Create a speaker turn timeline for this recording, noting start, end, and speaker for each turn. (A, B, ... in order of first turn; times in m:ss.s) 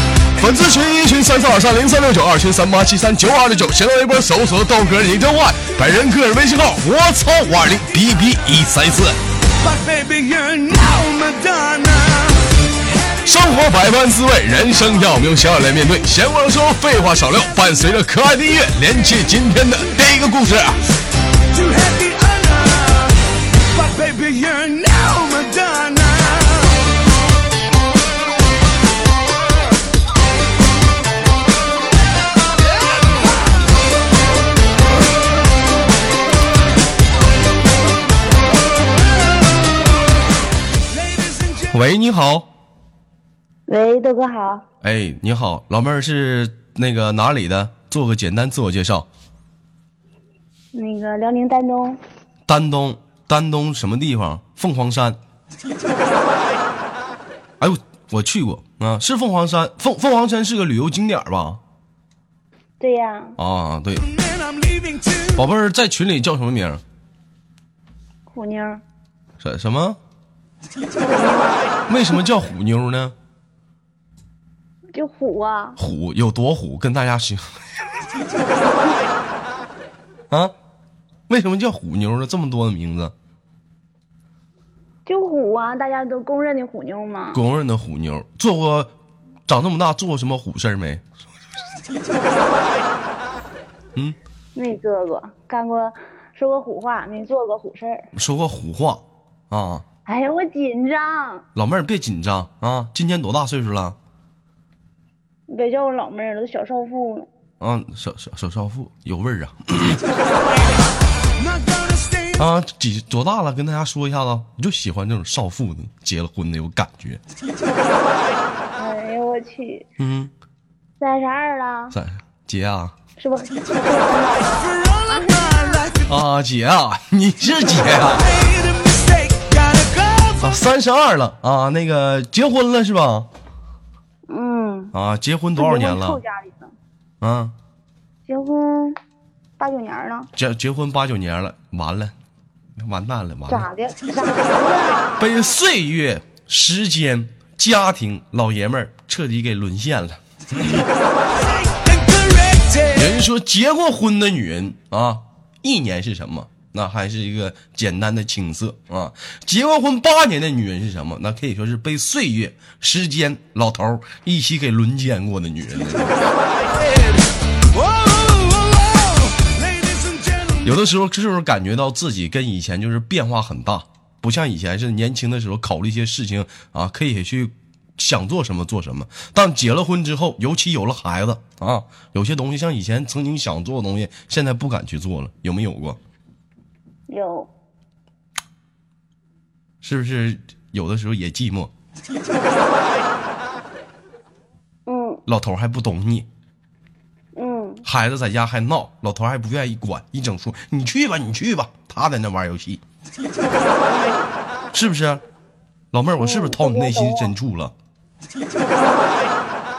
0:00.4-0:09.2 A
0:09.6-0:12.5 B
0:13.2-0:20.8 A
0:21.5-0:23.2 B
0:23.7-0:26.8 B
0:41.2-0:41.6 B
0:41.7-0:42.5 A
0:43.7-0:44.6 C
0:44.8-0:49.1 A
0:50.7-0:52.0 C
0:52.5-0:55.2 A
0:57.6-1:01.6 A
1:02.8-1:03.4 C
1:03.4-1:04.0 A
1:04.1-1:05.4 B
1:05.3-1:06.8 A
1:08.3-1:08.8 C
1:09.4-1:10.0 A
1:11.0-1:11.7 C
1:11.9-1:13.1 A
1:14.9-1:15.8 C
1:15.8-1:17.6 A
1:21.3-1:23.1 A
1:25.0-1:27.4 C
1:27.3-1:28.9 A
1:29.4-1:31.0 A
1:34.5-1:38.1 C
1:38.1-1:39.8 A
1:40.0-1:41.4 C
1:41.5-1:44.0 A
1:45.5-1:47.3 C
1:47.6-1:50.0 A
1:51.4-1:52.4 B
1:52.4-1:57.2 A
1:58.8-1:59.9 C
2:00.0-2:00.3 A
2:01.0-2:02.0 C
2:01.9-2:02.9 A
2:03.2-2:05.8 C
2:04.8-2:06.0 B
2:06.1-2:08.3 A
2:08.2-2:10.4 B
2:10.4-2:13.3 A
2:14.3-2:14.9 C
2:14.9-2:16.2 A
2:15.6-2:16.7 C
2:17.2-2:17.5 A
2:18.3-2:19.0 C
2:19.6-2:20.3 C
2:20.4-2:22.1 A
2:22.8-2:23.7 A
2:23.5-2:25.3 C
2:25.2-2:30.8 A
2:31.4-2:33.0 B
2:32.9-2:46.3 A
2:46.7-2:50.6 B
2:50.6-3:06.0 A
3:07.1-3:07.5 C
3:09.8-3:11.7 A
3:14.9-3:15.2 C
3:15.3-3:16.3 A
3:17.3-3:17.8 C
3:17.8-3:22.8 A
3:23.8-3:24.3 C
3:24.7-3:25.2 A
3:25.9-3:27.7 A
3:26.2-3:27.3 C
3:28.7-3:29.2 C